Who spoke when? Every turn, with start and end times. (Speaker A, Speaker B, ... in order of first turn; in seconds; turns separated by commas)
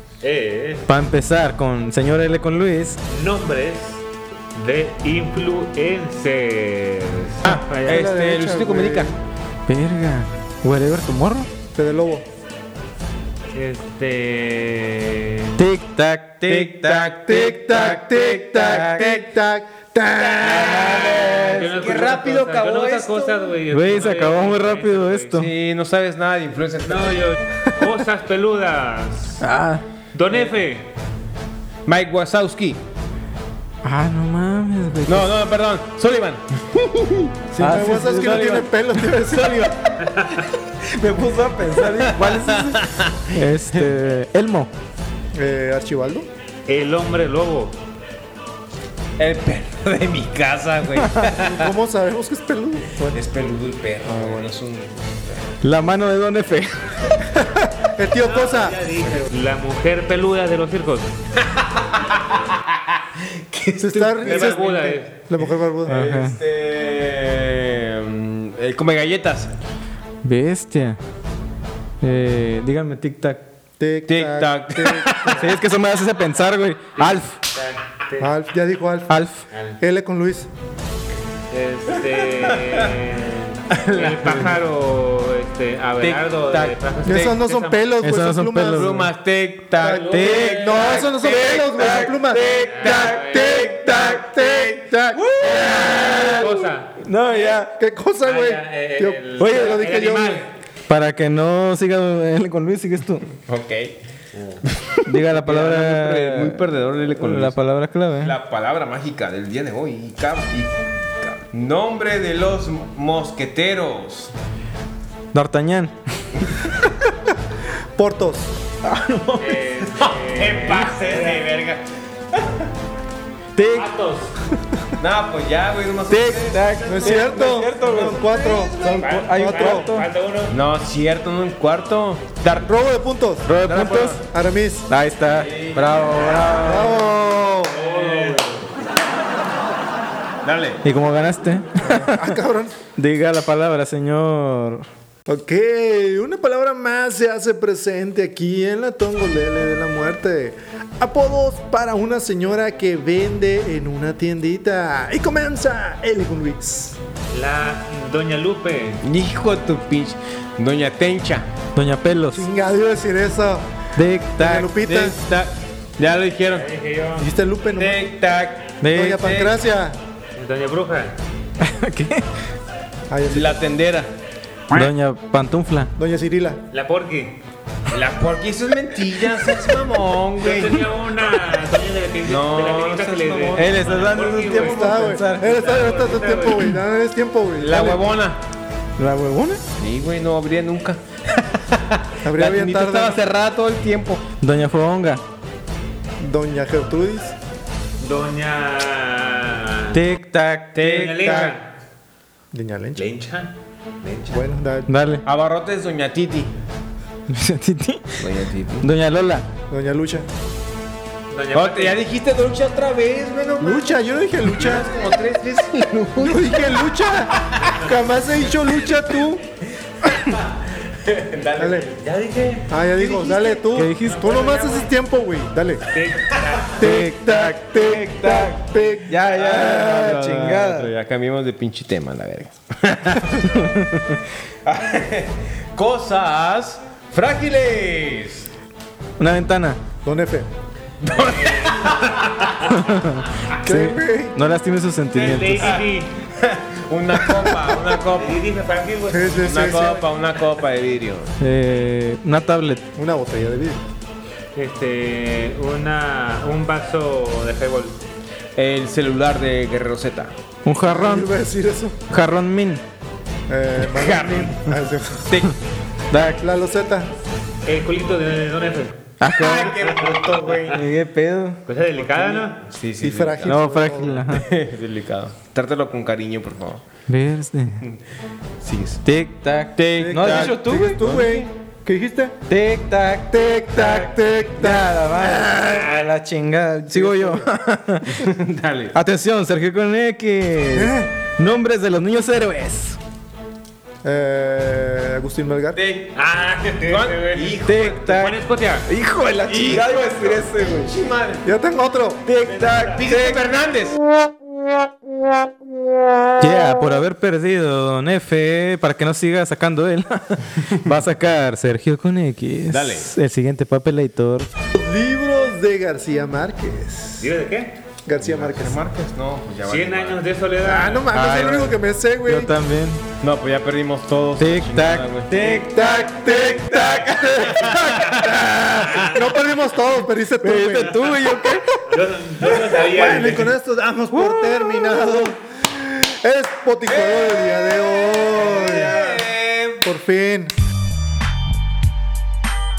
Speaker A: 0.2-0.9, Speaker B: 0.9-3.0, Speaker A: 3.1-8.0, Speaker C: 7.5-9.1, Speaker D: 7.7-9.2, Speaker B: 9.7-11.5, Speaker D: 11.8-12.3, Speaker A: 13.5-15.6, Speaker B: 15.6-17.1, Speaker C: 16.5-19.3, Speaker D: 17.1-21.2, Speaker C: 20.1-23.6, Speaker A: 20.4-25.4, Speaker B: 23.7-25.5, Speaker C: 25.3-27.4, Speaker A: 26.8-29.4, Speaker B: 29.4-29.8, Speaker A: 30.1-30.9, Speaker C: 30.3-30.6, Speaker C: 31.9-32.8, Speaker B: 33.8-35.4, Speaker C: 35.1-37.3, Speaker D: 37.5-39.7, Speaker B: 37.6-38.7, Speaker C: 39.2-40.5, Speaker A: 40.0-40.5, Speaker B: 41.0-42.8, Speaker C: 41.2-43.9, Speaker B: 43.3-44.7, Speaker D: 45.3-46.3, Speaker A: 46.7-47.8, Speaker C: 49.2-51.7, Speaker B: 51.0-51.2, Speaker D: 51.4-53.2, Speaker C: 53.1-55.6, Speaker D: 54.0-54.4, Speaker B: 55.6-56.8, Speaker D: 57.3-58.8, Speaker A: 58.2-61.2, Speaker C: 59.0-59.3, Speaker C: 61.4-64.8, Speaker D: 63.8-66.1, Speaker A: 64.2-65.1, Speaker C: 65.4-69.5, Speaker B: 65.9-66.4, Speaker B: 70.2-71.0, Speaker B: 72.0-73.4, Speaker D: 73.8-75.5, Speaker C: 74.1-75.6, Speaker B: 75.4-77.3, Speaker A: 77.0-78.3, Speaker D: 78.2-79.2, Speaker B: 79.1-79.4, Speaker A: 79.5-79.8, Speaker D: 79.8-80.5, Speaker A: 81.5-88.0, Speaker C: 82.0-83.0, Speaker C: 83.7-84.6, Speaker C: 86.0-87.3, Speaker D: 87.0-89.1, Speaker B: 88.0-89.0, Speaker C: 88.7-94.9, Speaker D: 89.8-95.9, Speaker B: 90.1-93.2, Speaker A: 92.6-93.7, Speaker B: 95.2-97.7, Speaker C: 95.4-96.4, Speaker A: 96.3-97.6, Speaker D: 97.8-100.5, Speaker A: 98.2-100.5, Speaker B: 99.4-99.8, Speaker B: 100.9-103.3, Speaker C: 103.5-103.9, Speaker A: 104.3-104.6, Speaker C: 104.8-107.6, Speaker B: 105.1-108.4, Speaker C: 108.2-114.3, Speaker B: 115.3-116.0, Speaker D: 118.0-118.5, Speaker B: 118.8-119.5, Speaker A: 119.4-121.8, Speaker C: 119.9-121.8, Speaker B: 123.6-123.9, Speaker A: 123.7-124.4, Speaker C: 125.0-129.2, Speaker B: 126.1-130.1, Speaker D: 126.9-128.8, Speaker A: 128.8-130.6, Speaker D: 129.3-129.9, Speaker C: 130.5-132.7, Speaker D: 132.7-133.6, Speaker B: 133.5-134.2, Speaker C: 133.6-134.2, Speaker D: 134.2-134.9, Speaker B: 134.9-137.0, Speaker C: 135.3-136.7, Speaker D: 136.6-137.8, Speaker A: 137.7-138.7, Speaker C: 137.8-138.6, Speaker C: 140.4-140.8, Speaker B: 140.8-142.2, Speaker D: 141.8-142.8, Speaker B: 143.0-144.9, Speaker D: 145.3-157.0, Speaker A: 157.3-159.0, Speaker C: 159.0-161.5, Speaker B: 161.8-162.5, Speaker D: 162.3-163.7, Speaker B: 164.0-164.7, Speaker D: 164.4-165.2, Speaker C: 164.5-166.7, Speaker A: 166.5-167.3, Speaker D: 167.2-168.1, Speaker C: 167.8-169.6, Speaker B: 168.8-169.2, Speaker D: 168.9-170.0, Speaker A: 170.3-171.2, Speaker B: 171.6-172.3, Speaker D: 173.1-173.6, Speaker C: 173.3-174.1, Speaker B: 174.7-175.9, Speaker D: 176.0-176.6, Speaker A: 176.7-177.4, Speaker C: 177.9-180.8, Speaker A: 180.4-186.7, Speaker C: 182.2-183.8, Speaker B: 183.5-185.5, Speaker D: 184.5-188.1, Speaker C: 187.6-188.4, Speaker B: 189.0-189.6, Speaker C: 189.8-194.2, Speaker D: 192.2-193.2, Speaker B: 194.4-195.2, Speaker D: 196.2-197.3, Speaker A: 198.0-200.0, Speaker B: 199.9-201.0, Speaker C: 200.7-201.6, Speaker A: 200.8-201.8, Speaker D: 202.5-203.1, Speaker A: 202.9-204.4, Speaker D: 204.3-205.0, Speaker B: 204.9-205.2, Speaker C: 205.2-206.6, Speaker B: 207.3-208.2, Speaker C: 208.2-208.9, Speaker B: 208.8-209.5, Speaker D: 209.7-210.3, Speaker A: 211.3-212.1, Speaker C: 211.5-217.7, Speaker D: 213.6-215.0, Speaker D: 216.2-219.4, Speaker A: 217.7-218.5, Speaker C: 220.0-221.9, Speaker D: 221.6-221.9, Speaker A: 221.9-222.8, Speaker D: 222.7-225.9, Speaker C: 223.0-223.6, Speaker B: 223.8-224.2, Speaker A: 223.8-224.9, Speaker A: 225.9-226.8, Speaker D: 226.8-229.1, Speaker B: 226.8-227.8, Speaker C: 227.7-233.8, Speaker B: 229.2-230.9, Speaker B: 233.4-234.0, Speaker C: 234.7-238.5, Speaker B: 239.2-239.8, Speaker D: 240.0-240.5, Speaker C: 241.0-242.5, Speaker A: 241.1-242.9, Speaker B: 242.7-245.7, Speaker D: 243.6-244.4, Speaker A: 245.1-246.2, Speaker C: 245.6-248.4, Speaker D: 247.2-247.8, Speaker A: 248.1-250.1, Speaker D: 249.1-250.0, Speaker C: 249.4-251.3, Speaker B: 251.4-252.8, Speaker D: 253.0-253.8, Speaker A: 254.6-258.1, Speaker C: 258.6-260.3, Speaker B: 260.6-261.3, Speaker D: 260.8-262.0, Speaker B: 262.1-262.8, Speaker D: 263.5-265.4, Speaker C: 263.8-264.6, Speaker C: 265.3-265.6, Speaker B: 266.1-266.4, Speaker D: 266.4-267.1, Speaker A: 267.6-269.0, Speaker B: 269.2-269.8, Speaker C: 269.4-270.8, Speaker A: 269.7-270.7, Speaker B: 270.7-271.6, Speaker A: 271.7-272.6, Speaker C: 271.9-273.6, Speaker D: 273.0-274.3, Speaker B: 273.4-274.5, Speaker C: 274.3-276.8, Speaker B: 277.1-277.8, Speaker C: 278.6-279.0, Speaker B: 279.0-281.1, Speaker C: 279.8-281.5, Speaker D: 280.0-282.4, Speaker B: 282.5-288.1, Speaker D: 283.3-285.8, Speaker A: 285.6-286.1, Speaker D: 286.9-287.5, Speaker C: 288.1-288.9, Speaker B: 288.9-293.0, Speaker D: 290.7-291.1, Speaker D: 294.0-295.8, Speaker C: 295.8-296.2, Speaker A: 296.1-298.9, Speaker C: 296.9-298.2, Speaker B: 297.7-300.9, Speaker C: 299.5-301.4, Speaker D: 301.4-302.2, Speaker B: 302.2-303.4, Speaker A: 302.4-303.2, Speaker C: 302.9-304.0, Speaker B: 306.4-314.5, Speaker C: 312.7-313.1, Speaker D: 314.8-317.3, Speaker A: 317.2-317.8, Speaker D: 318.1-318.9, Speaker C: 318.1-320.2, Speaker A: 319.6-321.1, Speaker D: 320.6-322.5, Speaker B: 321.1-323.0, Speaker C: 323.2-329.1, Speaker B: 324.4-327.0, Speaker D: 325.4-328.2, Speaker A: 327.6-329.4, Speaker B: 328.1-329.0, Speaker D: 329.0-331.0, Speaker B: 330.4-331.6, Speaker A: 331.9-333.6, Speaker D: 332.7-339.3, Speaker B: 334.1-335.3, Speaker C: 336.9-339.8, Speaker D: 339.8-340.5